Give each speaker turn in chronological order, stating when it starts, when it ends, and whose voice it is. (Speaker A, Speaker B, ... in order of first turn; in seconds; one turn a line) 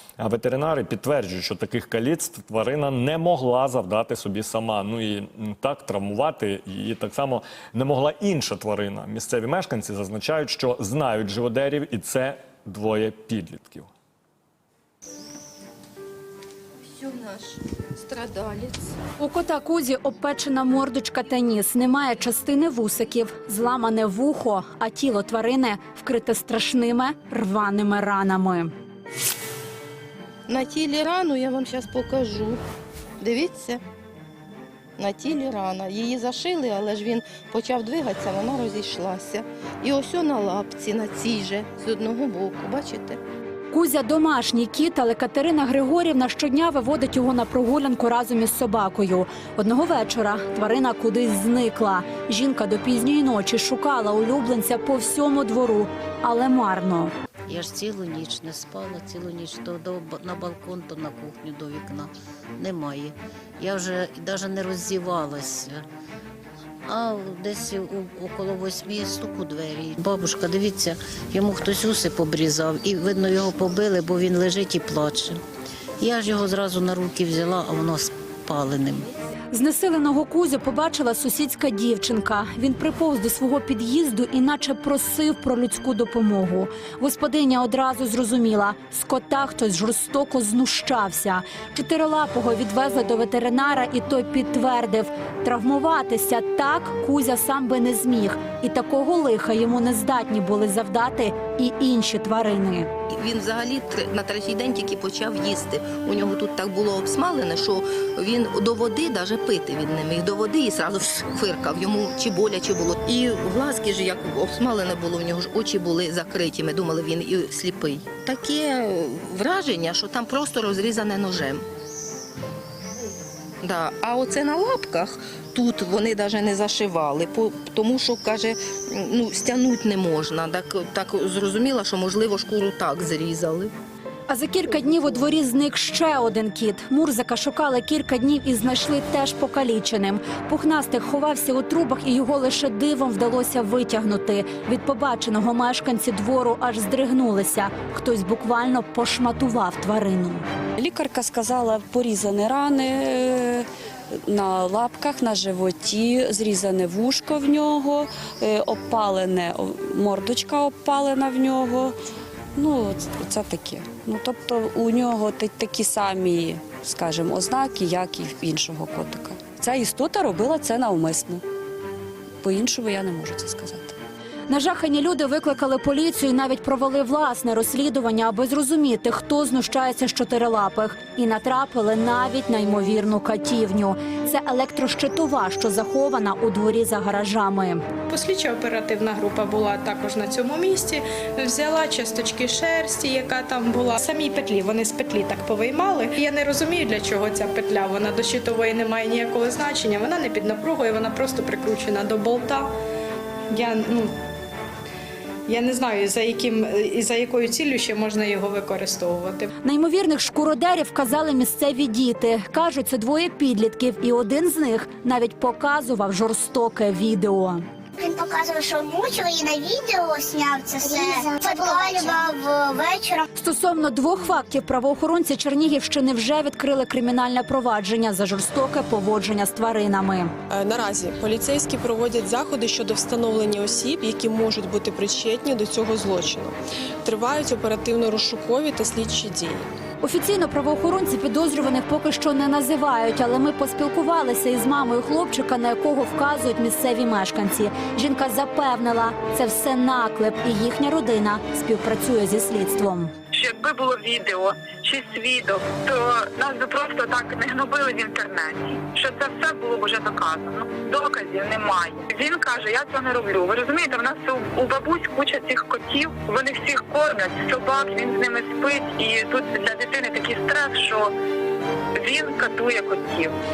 Speaker A: 0.2-13.9
Speaker B: 16.9-18.9
Speaker C: 19.2-28.7
Speaker B: 30.5-32.6
Speaker B: 33.2-33.8
Speaker B: 35.0-43.2
Speaker C: 43.7-57.1
Speaker D: 57.5-65.8
Speaker D: 66.9-75.4
Speaker D: 76.0-79.1
Speaker C: 79.5-102.9
Speaker B: 103.1-121.6
Speaker B: 123.6-133.7
Speaker C: 134.3-150.4
Speaker E: 150.8-153.7
Speaker E: 154.2-162.0
Speaker E: 162.6-171.4
Speaker E: 172.4-173.9
Speaker C: 174.5-187.8
Speaker F: 188.1-202.7
Speaker F: 203.5-204.1
Speaker F: 205.5-209.5
Speaker C: 209.6-217.6
Speaker G: 217.9-223.2
Speaker C: 223.4-230.3
Speaker H: 230.5-239.7
Speaker C: 240.0-253.1
Speaker I: 253.3-271.1
Speaker I: 272.0-273.3